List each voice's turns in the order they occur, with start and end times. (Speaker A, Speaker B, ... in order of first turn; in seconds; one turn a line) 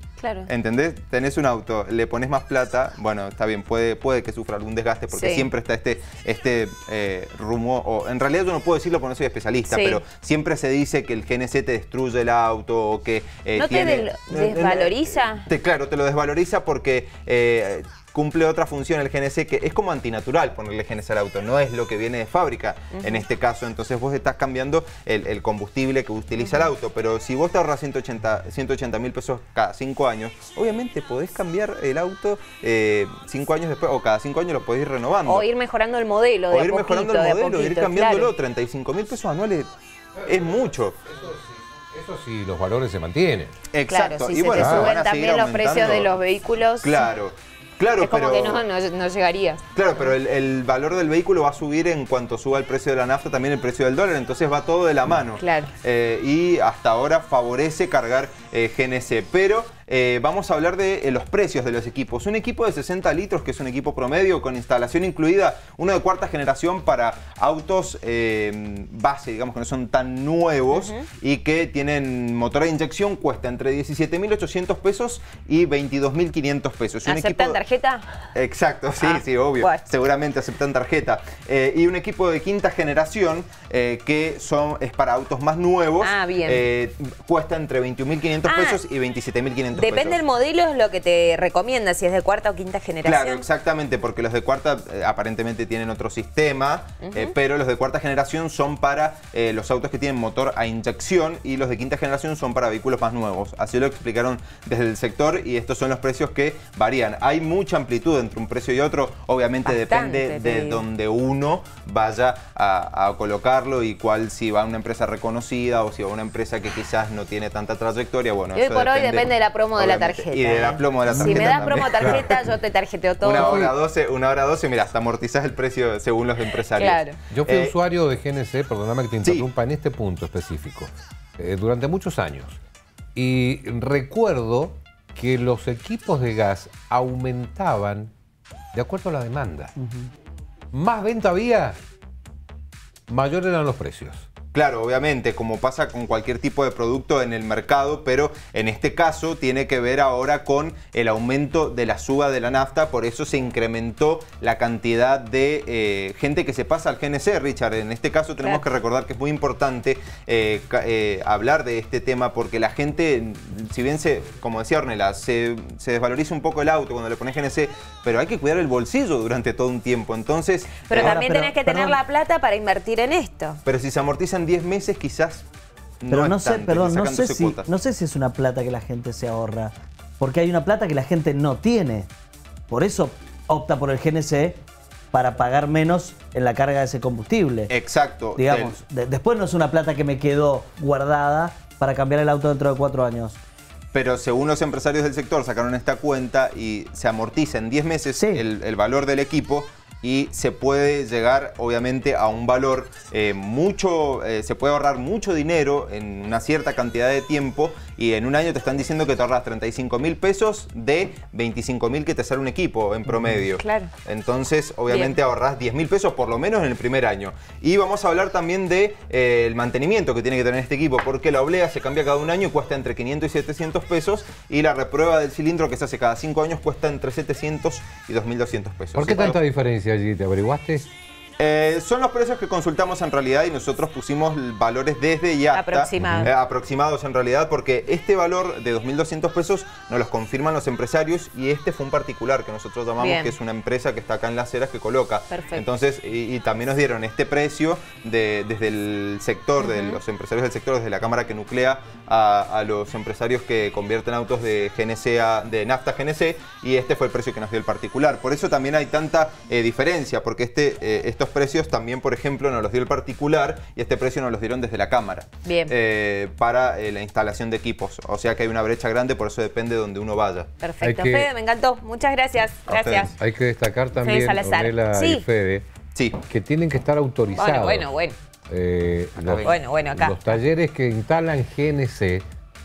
Speaker A: 0.2-0.5
Speaker B: 0.5-35.5
Speaker A: 5.1-5.5
Speaker A: 9.7-10.0
Speaker A: 13.6-15.5
Speaker A: 22.9-23.2
Speaker A: 26.4-26.6
Speaker A: 35.3-38.3
Speaker B: 36.5-39.7
Speaker C: 40.2-40.5
Speaker B: 40.2-41.0
Speaker C: 41.0-43.5
Speaker B: 43.7-46.1
Speaker A: 43.9-47.1
Speaker C: 44.6-45.0
Speaker B: 46.8-48.6
Speaker A: 48.0-49.6
Speaker B: 49.7-77.6
Speaker A: 55.4-55.7
Speaker A: 70.7-71.0
Speaker A: 77.0-78.1
Speaker B: 78.3-90.2
Speaker A: 79.0-79.8
Speaker A: 86.0-86.7
Speaker A: 88.4-88.8
Speaker A: 89.7-93.5
Speaker B: 93.0-122.3
Speaker A: 97.0-97.3
Speaker A: 109.7-110.8
Speaker A: 118.5-123.7
Speaker C: 121.1-122.3
Speaker B: 123.2-127.8
Speaker C: 123.3-123.7
Speaker A: 126.7-127.2
Speaker C: 127.3-132.6
Speaker B: 129.2-129.5
Speaker C: 133.2-138.1
Speaker C: 138.7-139.7
Speaker D: 139.8-140.1
Speaker C: 140.7-141.8
Speaker C: 143.1-144.3
Speaker B: 144.5-171.3
Speaker A: 170.9-173.6
Speaker D: 170.9-172.0
Speaker B: 173.7-175.4
Speaker B: 176.0-177.7
Speaker D: 176.1-182.1
Speaker D: 182.7-184.6
Speaker D: 185.1-187.7
Speaker B: 187.7-188.8
Speaker D: 188.4-193.4
Speaker B: 193.9-229.4
Speaker A: 213.5-213.9
Speaker C: 228.9-230.9
Speaker B: 231.4-270.5
Speaker A: 235.5-236.3
Speaker C: 236.0-236.3
Speaker A: 243.0-243.4
Speaker A: 245.3-245.7
Speaker A: 249.6-250.0
Speaker A: 265.4-265.7
Speaker A: 270.6-273.1
Speaker C: 270.8-271.3
Speaker B: 272.7-273.1
Speaker C: 273.2-275.6
Speaker A: 274.0-275.2
Speaker B: 275.9-276.2
Speaker C: 276.3-277.9
Speaker A: 277.4-278.2
Speaker C: 278.5-282.2
Speaker B: 279.2-279.6
Speaker A: 279.4-280.4